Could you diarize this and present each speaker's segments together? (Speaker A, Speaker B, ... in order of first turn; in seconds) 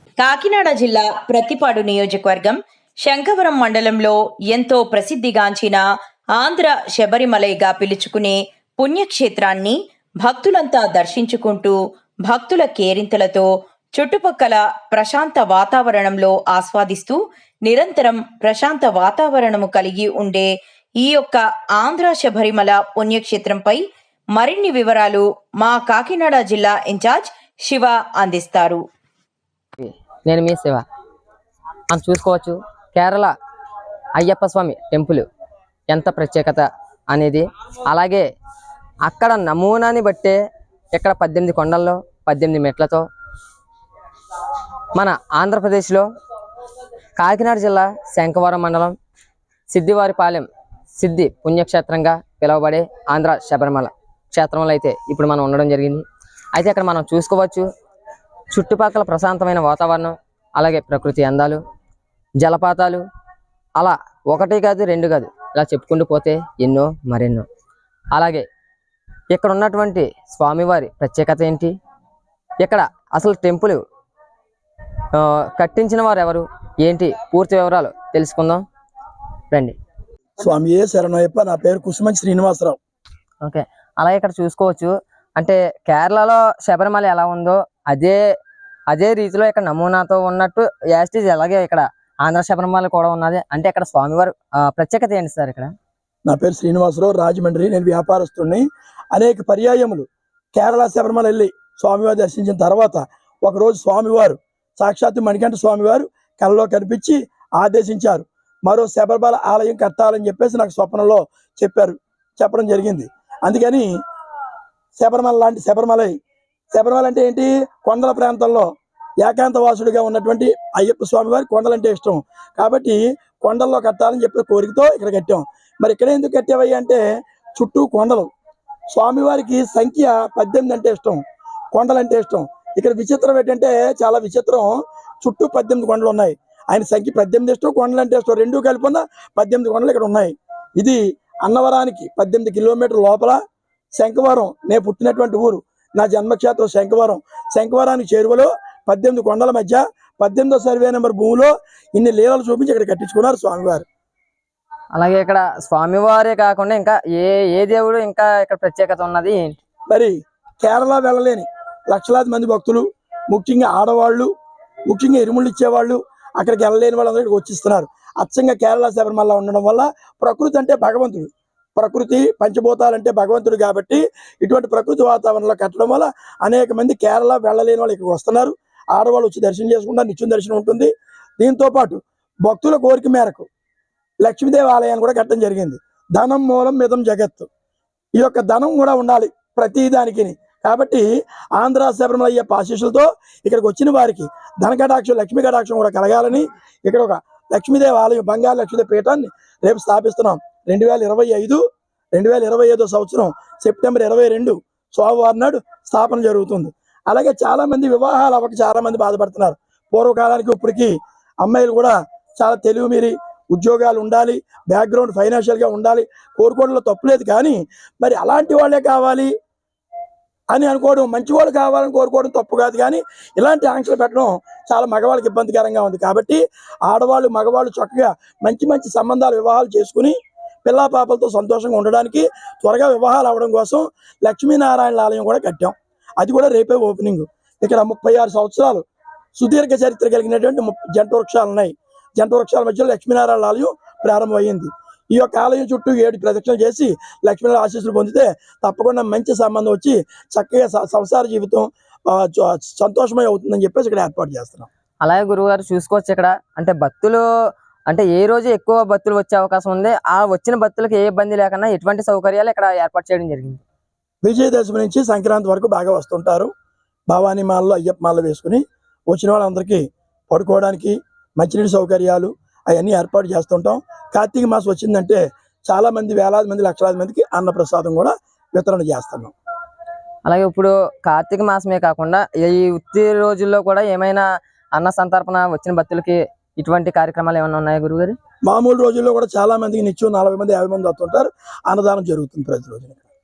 Speaker A: 0.2-5.8, 6.4-11.7, 12.3-23.8, 24.4-28.8
Speaker B: 29.8-30.8, 31.9-33.3, 34.2-35.2, 35.9-38.2, 39.0-40.4, 40.9-43.0, 44.9-46.0, 47.2-48.9, 49.7-56.0, 56.5-57.7, 58.5-61.6, 62.4-63.0, 63.8-67.4, 68.1-68.4, 69.3-71.7, 72.6-73.8, 75.1-78.6, 79.5-79.8, 83.4-88.2, 88.9-95.7, 154.9-159.6, 255.0-257.2, 257.9-263.6, 280.2-284.2, 284.7-288.1
Speaker C: 80.4-82.8, 96.3-113.9, 115.0-116.1, 116.7-118.7, 119.2-127.0, 127.6-128.3, 128.9-131.2, 131.7-143.4, 144.0-153.8, 159.9-164.3, 164.9-183.5, 184.2-187.5, 188.2-191.1, 191.6-201.6, 202.1-219.3, 220.5-238.8, 239.4-254.7, 264.2-266.5, 267.1-279.3, 288.5-293.1